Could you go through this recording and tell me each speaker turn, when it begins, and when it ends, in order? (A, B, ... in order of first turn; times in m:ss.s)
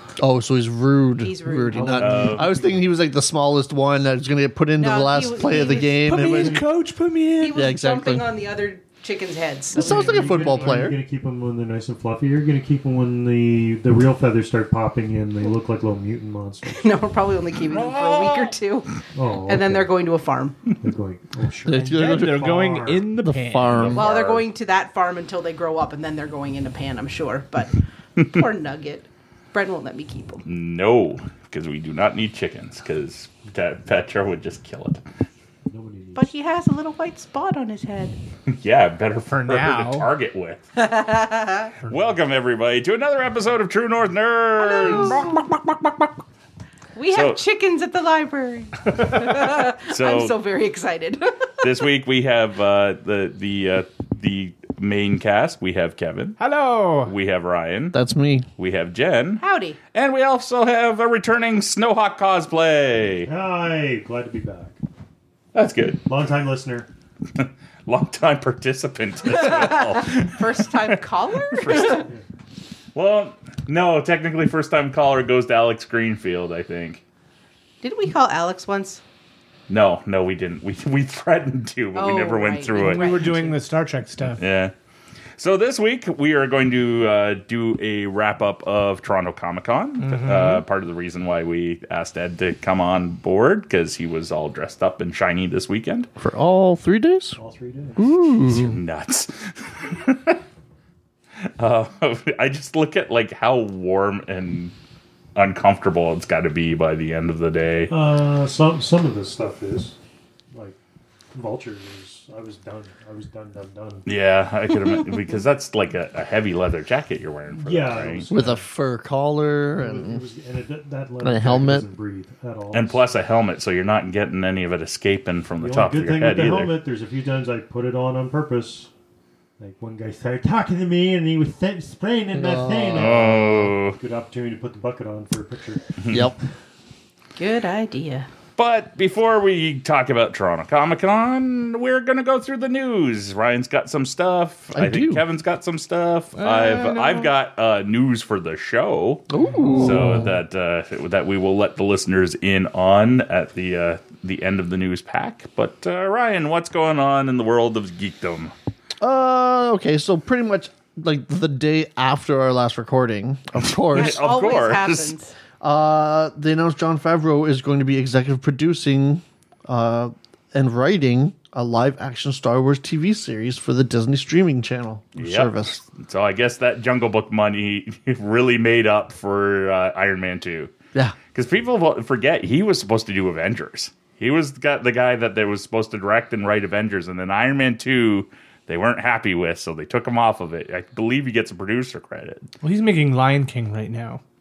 0:00.2-0:06.6 A
0:01.2-0:02.0 B
0:01.7-0:02.9 C
0:02.0-0:02.6 D
0:04.8-0:06.5 B
0:06.0-0:07.6 E
0:06.2-0:06.5 C
0:07.4-0:10.8 B
0:07.5-0:08.3 A
0:09.8-0:11.0 A
0:09.8-0:16.9 C
0:16.7-0:20.7 B
0:17.7-0:18.5 D
0:19.1-0:19.9 C
0:20.8-0:22.4 C
0:21.6-0:24.0 A
0:21.9-0:23.9 E
0:23.8-0:24.0 C
0:23.8-0:24.4 D
0:23.9-0:30.4 B
0:30.4-0:35.0 D
0:35.7-0:36.3 C
0:36.2-0:38.2 B
0:38.5-0:40.7 D
0:39.3-0:40.1 E
0:40.8-0:41.7 B
0:41.8-0:42.1 E
0:41.9-0:45.4 D
0:44.6-0:45.4 B
0:47.0-0:51.5 B
0:47.1-0:47.4 D
0:49.2-0:50.3 D
0:51.6-0:56.4 D
0:56.4-0:57.1 E
0:57.0-0:58.0 D
0:57.9-0:58.5 A
0:58.6-0:59.4 D
0:59.4-0:59.8 B
0:59.9-1:03.3 D
1:03.2-1:04.8 C
1:05.5-1:06.0 D
1:06.0-1:06.9 C
1:07.3-1:12.1 D
1:09.3-1:12.1 B
1:11.9-1:12.2 C
1:12.9-1:17.0 D
1:17.8-1:19.0 B
1:19.7-1:23.2 D
1:21.9-1:23.6 B
1:22.8-1:24.4 E
1:24.4-1:24.7 D
1:25.4-1:36.1 D
1:30.0-1:30.6 E
1:36.2-1:37.4 A
1:37.4-1:38.2 C
1:38.0-1:38.8 A
1:38.5-1:40.4 D
1:41.6-1:44.7 D
1:45.3-1:47.9 D
1:47.9-1:50.0 C
1:50.5-1:50.8 C
1:51.3-1:54.1 C
1:54.0-1:58.3 D
1:57.6-1:58.6 C
1:58.3-2:00.2 A
1:59.7-2:03.1 C
2:01.2-2:01.9 A
2:02.7-2:06.8 D
2:05.6-2:08.9 C
2:09.6-2:15.8 C
2:12.3-2:13.4 A
2:13.0-2:14.0 D
2:16.1-2:16.4 A
2:17.4-2:18.3 B
2:18.6-2:38.5 D
2:24.7-2:25.2 A
2:26.4-2:27.3 E
2:29.3-2:30.3 A
2:29.5-2:30.0 E
2:39.0-2:44.2 A
2:43.9-2:45.1 D
2:43.9-2:45.3 B
2:45.6-2:55.8 A
2:55.2-3:00.7 D
3:01.3-3:12.5 D
3:12.6-3:14.2 E